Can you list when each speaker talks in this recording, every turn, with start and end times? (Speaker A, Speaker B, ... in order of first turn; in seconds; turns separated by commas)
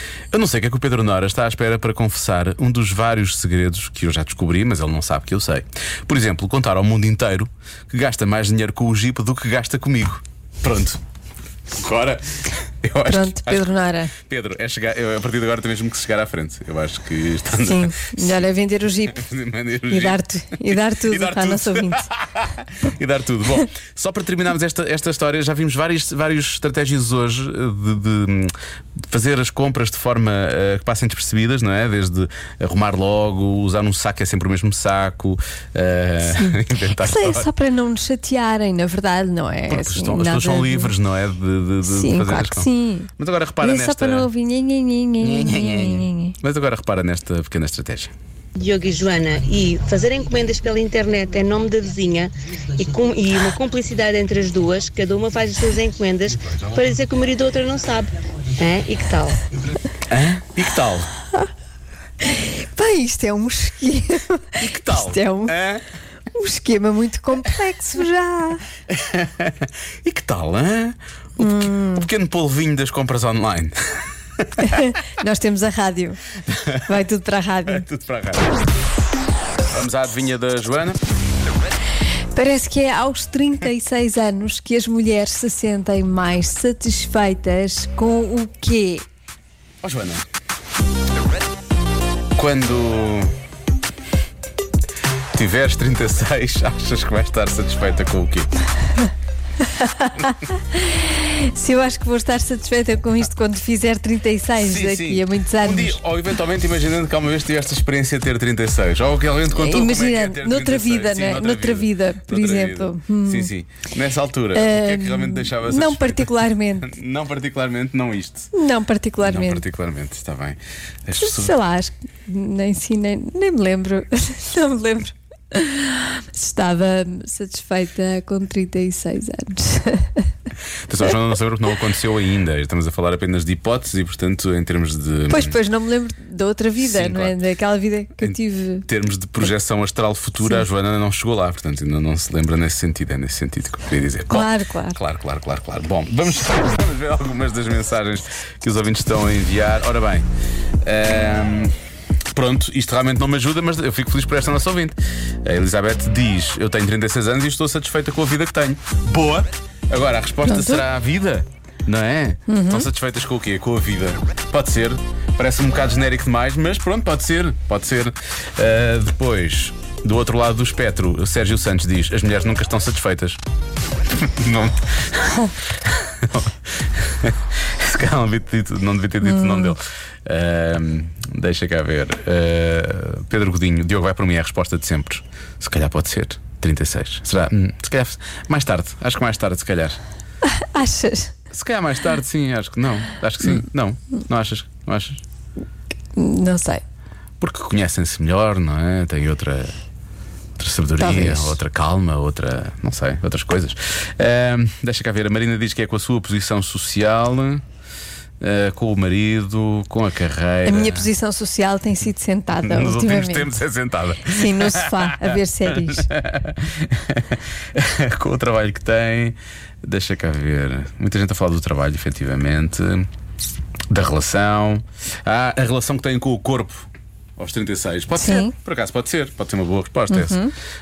Speaker A: 0.3-11.0, Speaker A: 11.7-18.4, Speaker B: 13.1-14.1, Speaker B: 17.6-19.2, Speaker A: 19.1-28.5, Speaker B: 19.9-22.1, Speaker A: 29.1-37.5, Speaker B: 36.3-40.9, Speaker A: 39.7-44.3, Speaker B: 41.9-46.4, Speaker A: 45.2-48.1, Speaker C: 48.6-59.4, Speaker A: 60.1-61.1, Speaker B: 62.2-65.5, Speaker A: 64.6-65.8, Speaker B: 66.3-68.6, Speaker A: 68.9-73.8, Speaker B: 71.4-72.1, Speaker B: 74.6-76.2, Speaker A: 76.5-76.8, Speaker B: 76.9-77.9, Speaker A: 77.7-78.6, Speaker A: 79.7-81.0, Speaker B: 82.3-89.0, Speaker A: 89.8-90.2, Speaker A: 92.4-93.3, Speaker A: 95.3-98.5, Speaker B: 99.7-106.0, Speaker A: 104.6-118.5, Speaker B: 109.5-113.5, Speaker B: 114.5-116.9, Speaker B: 118.5-119.6, Speaker A: 119.2-121.5, Speaker B: 121.2-130.2, Speaker A: 130.9-135.6, Speaker B: 135.3-138.8, Speaker A: 136.8-137.4, Speaker A: 138.2-150.3, Speaker B: 144.3-145.0, Speaker A: 150.8-151.8, Speaker A: 152.3-173.4, Speaker B: 160.5-160.8, Speaker B: 162.5-162.9, Speaker A: 174.1-190.0, Speaker B: 179.2-179.8, Speaker B: 190.5-191.3, Speaker A: 191.5-195.2, Speaker B: 196.2-196.8, Speaker A: 197.4-199.8, Speaker A: 200.6-207.6, Speaker B: 201.0-201.6, Speaker A: 208.4-211.1, Speaker B: 210.7-213.6, Speaker A: 212.6-223.1, Speaker B: 214.3-216.1, Speaker A: 223.9-230.4, Speaker B: 228.2-228.5, Speaker B: 230.1-230.5